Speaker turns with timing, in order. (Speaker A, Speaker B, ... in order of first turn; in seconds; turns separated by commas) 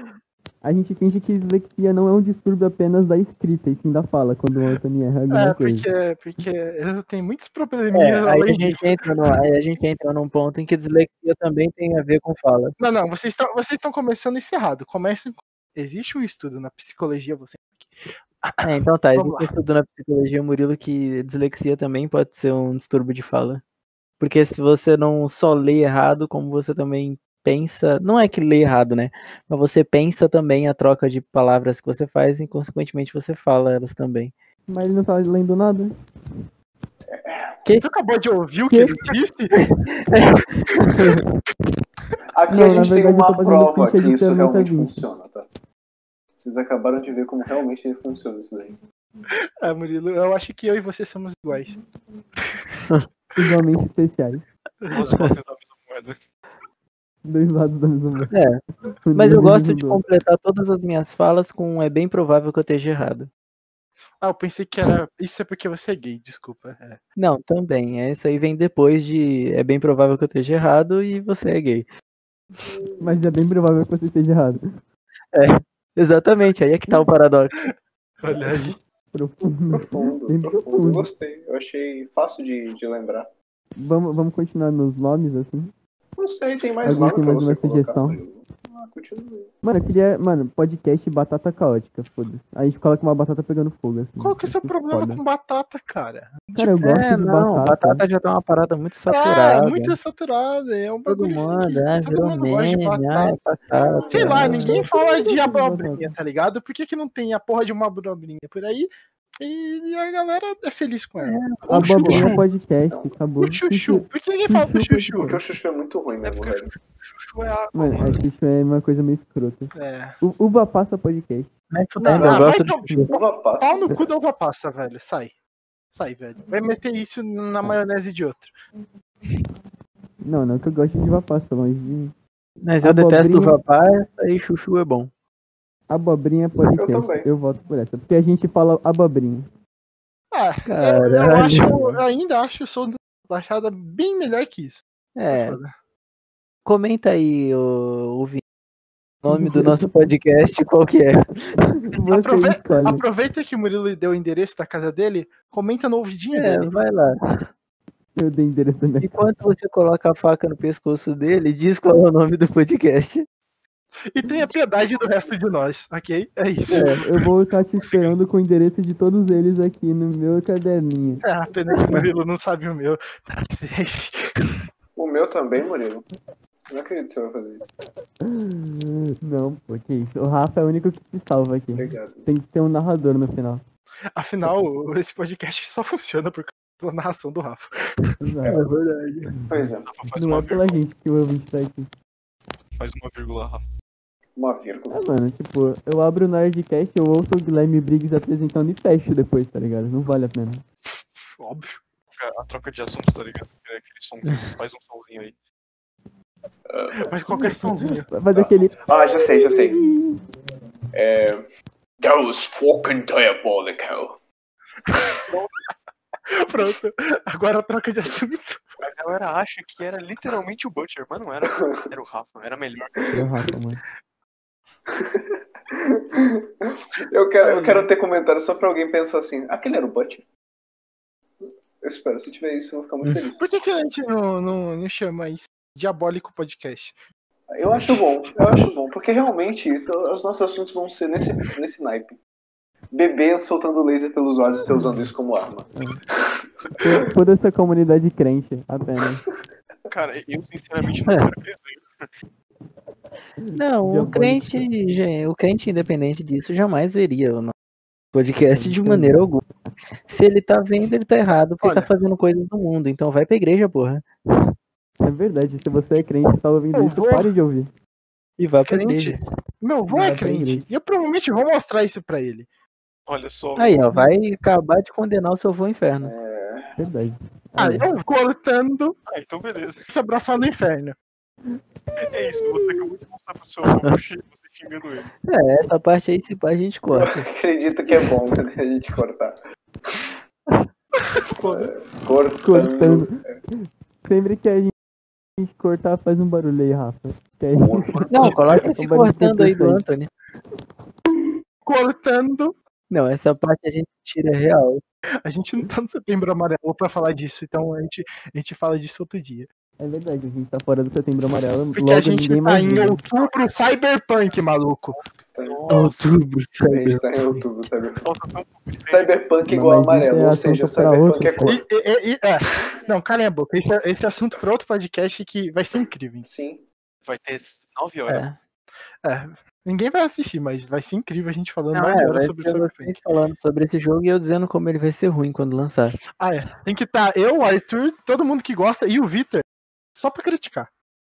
Speaker A: 0.6-5.9, Speaker B: 5.3-9.0, Speaker C: 7.9-12.7, Speaker B: 12.8-17.9, Speaker B: 18.4-19.5, Speaker C: 18.6-23.6, Speaker C: 24.2-34.3, Speaker A: 34.7-35.9, Speaker D: 37.1-37.6, Speaker B: 37.8-39.7, Speaker A: 38.7-39.0, Speaker C: 39.5-41.2, Speaker D: 42.3-45.5, Speaker A: 42.5-45.0, Speaker D: 46.4-48.8, Speaker B: 49.6-51.8, Speaker A: 53.4-54.4, Speaker B: 54.9-55.2, Speaker E: 54.9-56.2, Speaker C: 55.0-55.3, Speaker A: 57.2-58.3, Speaker C: 58.3-58.6, Speaker A: 59.0-60.0, Speaker C: 59.1-63.3, Speaker B: 64.2-67.0, Speaker C: 67.2-71.9, Speaker D: 72.6-73.2, Speaker A: 73.0-74.6, Speaker C: 75.3-77.6, Speaker B: 78.2-78.8, Speaker A: 79.1-81.1, Speaker D: 79.7-83.3, Speaker A: 83.8-85.7, Speaker D: 86.2-89.5, Speaker A: 86.8-88.2, Speaker A: 89.6-95.2, Speaker B: 94.2-96.9, Speaker A: 96.5-98.0, Speaker C: 96.8-100.0, Speaker B: 99.1-103.4, Speaker C: 101.0-104.8, Speaker D: 103.9-104.3, Speaker B: 104.1-112.4, Speaker A: 104.2-106.1, Speaker C: 111.2-112.3, Speaker A: 111.7-115.4, Speaker D: 112.9-113.1, Speaker B: 113.4-115.3, Speaker D: 115.2-116.7, Speaker E: 116.2-118.2, Speaker A: 117.7-121.5, Speaker B: 119.7-120.2, Speaker C: 121.7-123.1, Speaker B: 122.0-125.3, Speaker A: 122.3-123.1, Speaker D: 123.1-124.0, Speaker B: 125.9-128.5, Speaker A: 130.2-132.1, Speaker C: 132.6-135.1, Speaker A: 132.8-133.6, Speaker A: 135.9-139.5, Speaker D: 136.7-137.3, Speaker B: 140.3-145.7, Speaker C: 140.7-141.9, Speaker C: 145.2-145.6, Speaker C: 146.6-148.4, Speaker C: 149.2-151.6, Speaker A: 149.2-150.1, Speaker A: 151.9-153.0, Speaker B: 152.0-156.7, Speaker C: 156.3-157.5, Speaker A: 158.2-159.1, Speaker C: 159.0-163.2, Speaker B: 164.1-167.1, Speaker C: 166.7-167.0, Speaker A: 166.7-171.2, Speaker B: 171.2-174.6, Speaker C: 171.8-172.0, Speaker D: 174.9-176.0, Speaker D: 176.7-177.7, Speaker A: 178.2-183.6, Speaker D: 181.7-182.3, Speaker B: 184.1-188.2, Speaker A: 188.2-188.6, Speaker C: 188.5-189.3, Speaker A: 189.3-191.9, Speaker D: 189.5-189.9, Speaker E: 189.9-190.8, Speaker E: 192.8-193.6, Speaker D: 194.3-195.0, Speaker A: 194.9-200.6, Speaker B: 201.4-201.8, Speaker E: 202.1-205.3, Speaker D: 206.7-207.1, Speaker B: 207.0-208.1, Speaker A: 207.3-210.2, Speaker D: 208.3-209.8, Speaker D: 210.9-211.5, Speaker D: 212.0-214.2, Speaker B: 216.3-218.7, Speaker E: 218.8-223.1, Speaker D: 221.5-221.9, Speaker A: 223.1-223.8, Speaker D: 224.9-230.2, Speaker B: 227.4-227.8, Speaker D: 231.4-233.4, Speaker B: 233.4-237.0, Speaker D: 237.5-242.2, Speaker D: 242.9-246.4, Speaker A: 244.7-245.1, Speaker A: 246.8-249.2, Speaker E: 249.9-252.1, Speaker A: 253.4-254.7, Speaker C: 253.5-257.5, Speaker C: 258.1-259.4, Speaker A: 258.5-259.2, Speaker C: 260.1-264.5, Speaker B: 261.6-261.9, Speaker A: 265.0-267.7, Speaker B: 266.7-267.3, Speaker C: 268.4-269.2, Speaker B: 268.6-272.5, Speaker A: 269.9-270.6, Speaker E: 273.1-274.1, Speaker C: 273.6-276.1, Speaker D: 276.0-276.8, Speaker A: 276.8-277.9, Speaker B: 277.6-278.9, Speaker E: 279.1-279.9, Speaker B: 279.9-280.9, Speaker E: 282.0-285.1, Speaker A: 282.2-282.9, Speaker C: 283.6-283.9, Speaker C: 285.2-287.2, Speaker D: 286.9-290.0, Speaker D: 291.4-293.4, Speaker A: 292.4-293.2, Speaker A: 294.0-294.7, Speaker A: 295.4-299.8, Speaker D: 297.6-298.0, Speaker E: 297.9-298.7, Speaker C: 298.1-300.1, Speaker B: 301.6-302.5, Speaker C: 302.9-304.8, Speaker B: 305.2-309.5, Speaker A: 309.8-313.0, Speaker B: 311.7-314.9, Speaker E: 313.1-313.4, Speaker E: 314.9-316.2, Speaker D: 315.3-315.9, Speaker C: 315.7-317.4, Speaker D: 316.7-318.0, Speaker E: 318.0-319.1, Speaker D: 318.9-321.6, Speaker A: 319.4-321.6, Speaker B: 321.4-326.2, Speaker D: 326.2-326.6, Speaker E: 327.0-328.4, Speaker C: 328.1-328.4, Speaker B: 329.0-332.9, Speaker C: 331.7-336.0, Speaker B: 336.2-340.7